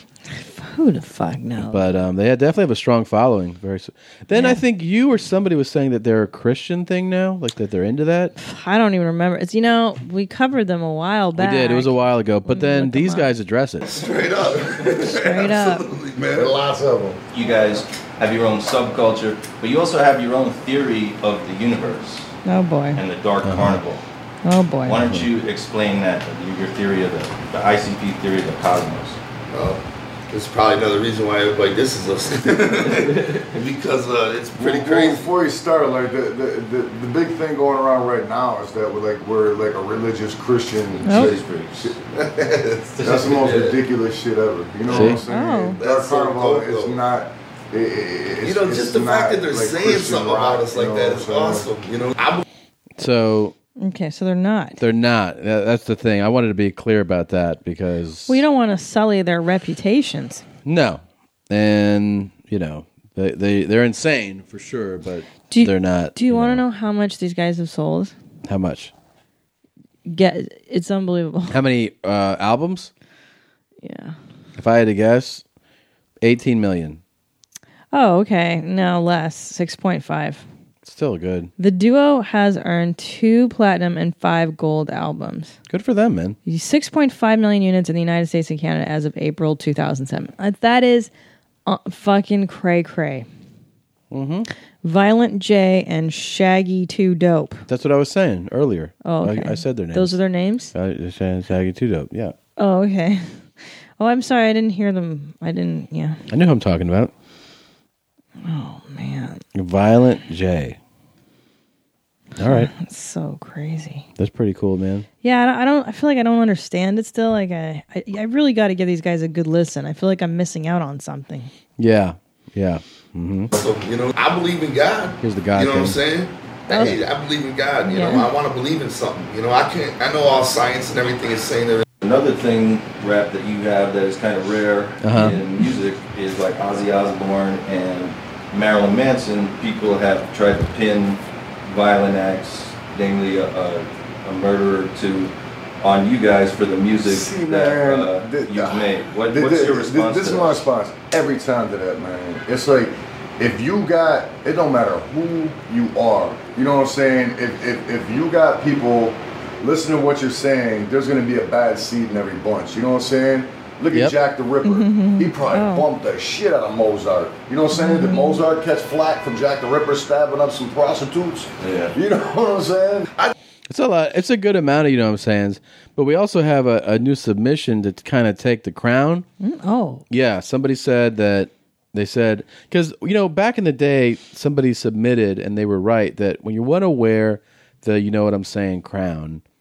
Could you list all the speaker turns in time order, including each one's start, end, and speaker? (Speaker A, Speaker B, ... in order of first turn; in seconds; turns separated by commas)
Speaker A: 0.4-1.8, Speaker B: 1.6-8.3, Speaker A: 4.3-4.6, Speaker A: 8.4-13.3, Speaker B: 11.4-14.0, Speaker C: 13.9-16.5, Speaker A: 15.0-15.9, Speaker D: 16.3-17.2, Speaker E: 17.3-22.3, Speaker A: 22.4-23.0, Speaker E: 22.9-24.0, Speaker B: 23.4-23.8, Speaker A: 24.4-25.2, Speaker E: 24.9-29.2, Speaker B: 24.9-25.3, Speaker C: 29.5-35.2, Speaker D: 34.6-42.0, Speaker A: 41.0-41.4, Speaker E: 41.1-41.9, Speaker C: 42.1-43.8, Speaker D: 43.0-51.7, Speaker B: 44.9-45.2, Speaker A: 45.3-45.8, Speaker C: 45.8-47.0, Speaker C: 48.4-52.4, Speaker B: 53.0-53.5, Speaker A: 53.8-54.8, Speaker B: 54.8-58.4, Speaker A: 58.3-60.5, Speaker B: 60.6-66.6, Speaker A: 65.5-68.1, Speaker B: 68.5-68.9, Speaker A: 70.1-71.6, Speaker B: 71.5-72.9, Speaker A: 73.8-74.2, Speaker B: 74.6-75.4, Speaker B: 76.2-77.0, Speaker A: 77.9-80.5, Speaker B: 80.8-81.5, Speaker A: 81.6-85.6, Speaker B: 85.7-86.4, Speaker A: 86.5-91.1, Speaker A: 91.7-93.3, Speaker B: 94.1-94.5, Speaker A: 94.8-97.6, Speaker B: 97.7-100.1, Speaker A: 99.0-100.7, Speaker B: 100.7-102.3, Speaker A: 102.6-103.3, Speaker A: 104.0-106.2, Speaker B: 106.3-107.1, Speaker A: 108.4-109.4, Speaker B: 109.5-110.8, Speaker B: 112.4-112.7, Speaker A: 112.4-114.1, Speaker B: 114.2-115.1, Speaker A: 115.2-121.5, Speaker B: 121.8-123.5, Speaker C: 123.5-131.8, Speaker B: 125.2-126.0, Speaker A: 127.9-128.3, Speaker E: 132.0-150.7, Speaker B: 135.0-135.4, Speaker D: 147.0-173.1, Speaker A: 164.6-165.9, Speaker A: 167.7-168.4, Speaker E: 171.6-171.9, Speaker B: 173.7-179.3, Speaker A: 179.4-180.0, Speaker B: 180.1-189.4